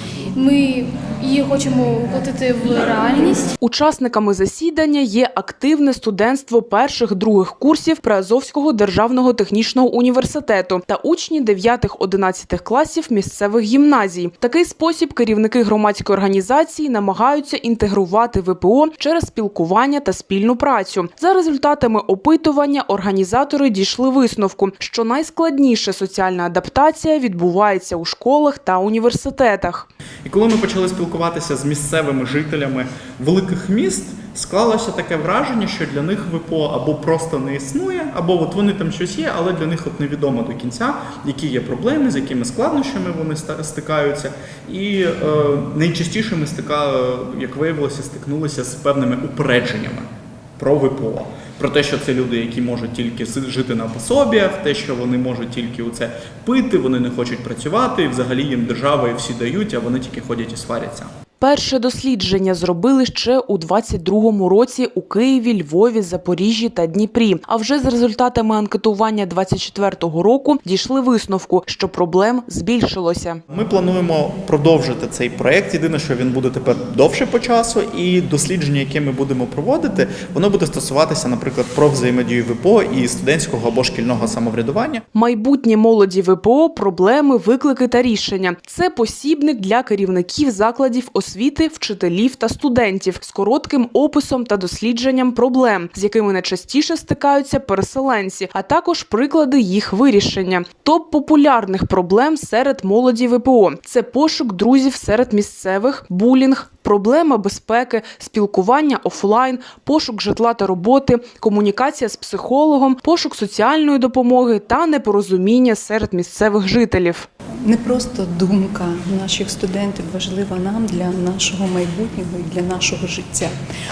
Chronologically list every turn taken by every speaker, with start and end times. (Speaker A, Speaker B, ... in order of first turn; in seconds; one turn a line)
Speaker A: 0.3-3.5
Speaker B: 3.6-29.9
Speaker C: 30.2-50.1
Speaker C: 50.6-61.1
Speaker B: 61.4-73.4
Speaker C: 73.5-85.0
Speaker B: 85.1-117.3
Speaker D: 117.7-123.5